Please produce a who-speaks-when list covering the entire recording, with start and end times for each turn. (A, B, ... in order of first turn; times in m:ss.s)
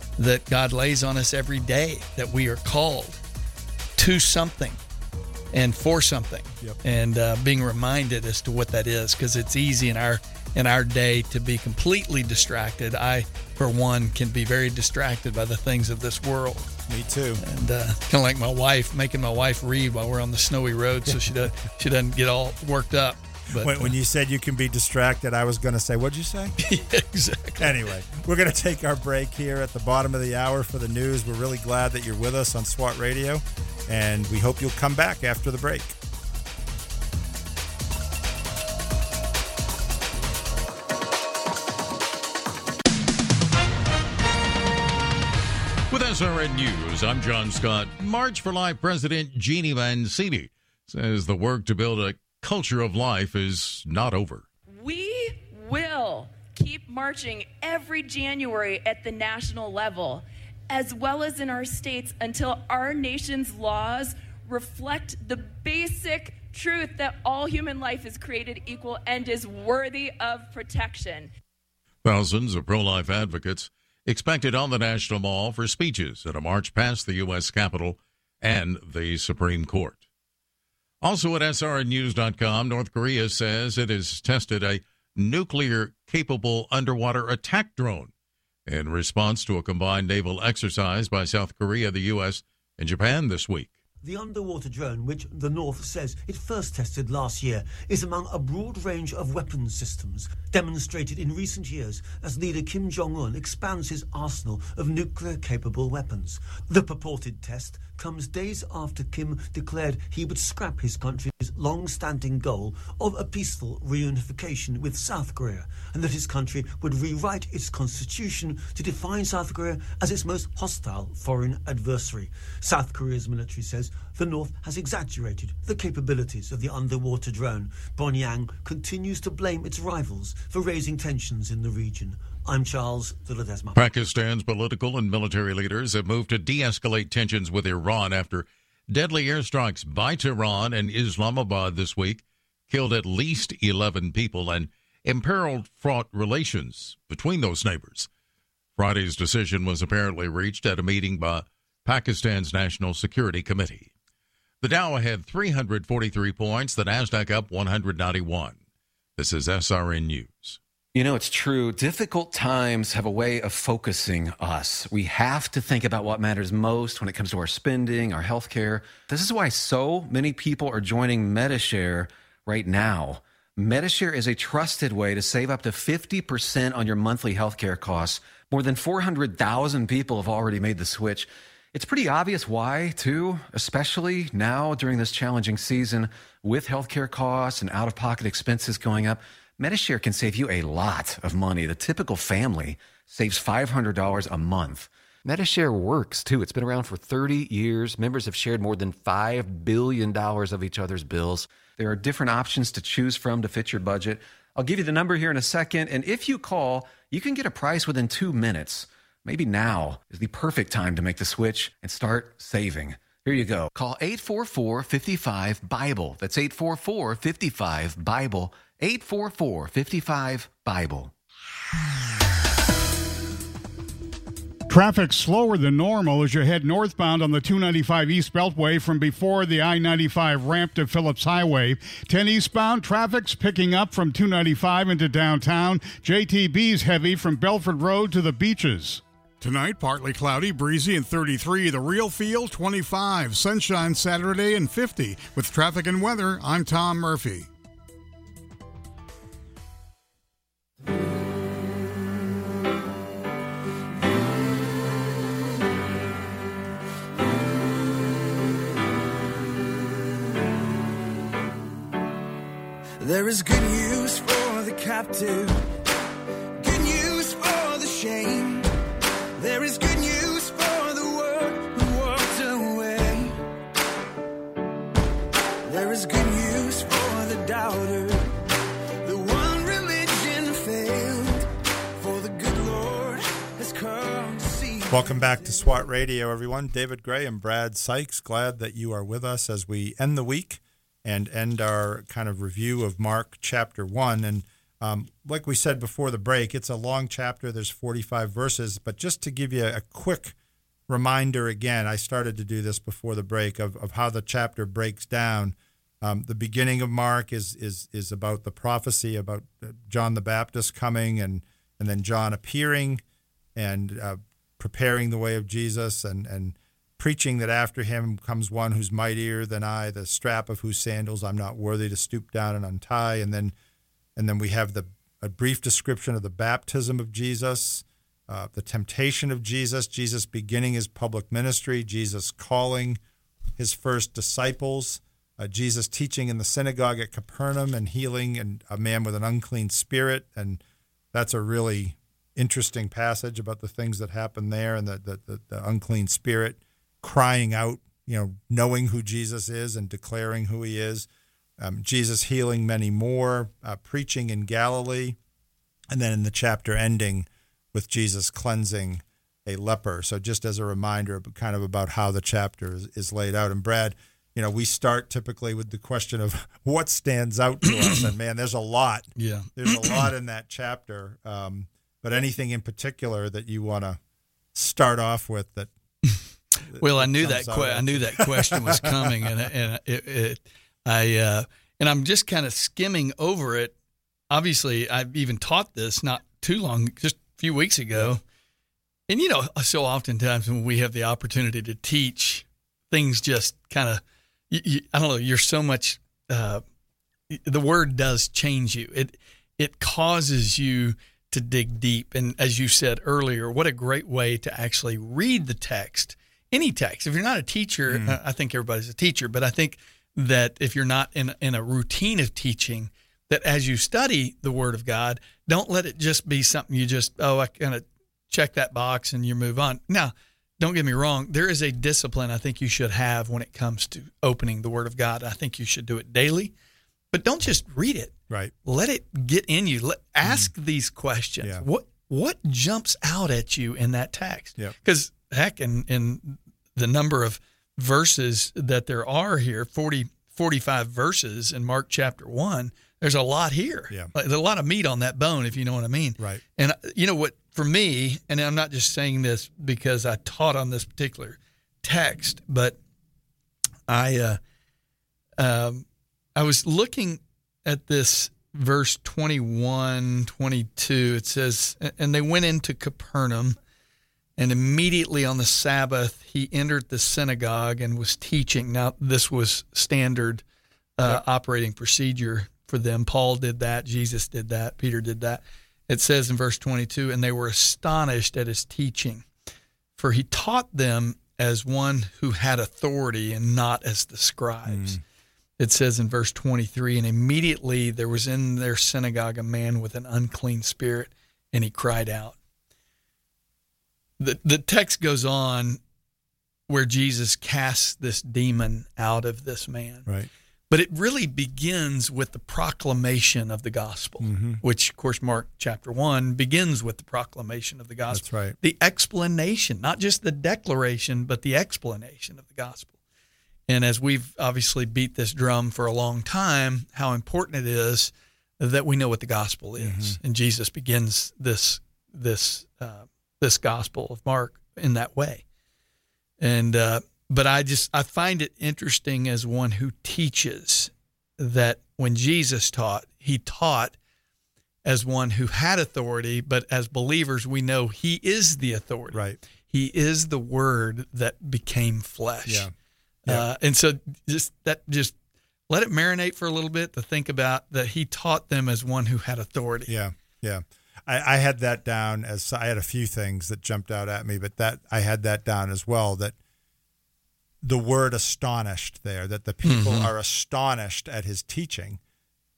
0:00.2-0:03.2 A
0:04.0-0:04.8 A
0:05.5-0:16.7 A
0:16.9-0:17.4 B
0:17.4-0:23.9 A
0:23.6-0:26.6 B
0:26.6-0:27.8 A
0:27.6-0:36.0 B
0:45.9-0:54.5 C
0:54.7-1:11.3 D
1:12.0-1:20.0 C
1:21.0-1:28.1 C
1:28.7-1:33.8 C
1:34.0-2:13.8 E
2:13.8-2:28.1 C
2:28.8-2:33.9 C
2:34.6-2:38.6 C
2:39.2-2:40.6 C
2:41.0-3:41.1 F
3:44.7-4:07.5 G
4:23.0-4:25.6 H
4:26.6-4:28.7 H
4:29.4-4:33.4 H
4:35.7-4:38.3 H
4:39.0-4:45.8 H
4:44.9-5:00.4 B
5:00.9-5:13.0 B
5:13.6-5:23.5 B
5:24.2-5:33.0 B
5:33.6-5:40.6 B
5:41.1-5:51.1 B
5:51.6-5:55.2 B
5:55.9-6:14.0 B
6:09.2-6:10.1 A
6:14.6-6:15.7 B
6:16.1-6:23.8 A
6:16.7-6:19.1 B
6:24.3-6:28.2 A
6:29.1-6:36.6 A
6:37.3-7:06.5 A
6:47.9-6:48.2 B
7:07.1-7:32.8 A
7:10.2-7:10.5 B
7:33.9-7:34.4 A
7:35.4-7:43.6 A
7:44.4-7:50.4 A
7:51.0-7:59.3 A
8:00.0-8:05.0 A
8:04.7-8:05.0 B
8:05.6-8:12.4 A
8:14.2-8:15.8 A
8:16.7-8:20.1 A
8:20.7-8:32.9 A
8:24.2-8:24.6 B
8:28.1-8:28.6 B
8:33.7-8:45.4 A
8:39.8-8:40.2 B
8:46.4-8:54.0 A
8:54.8-9:02.7 A
8:59.1-8:59.4 B
9:02.5-9:02.7 B
9:03.3-9:05.2 A
9:05.7-9:09.9 A
9:09.9-9:16.4 B
9:17.6-9:22.0 B
9:19.6-9:20.1 A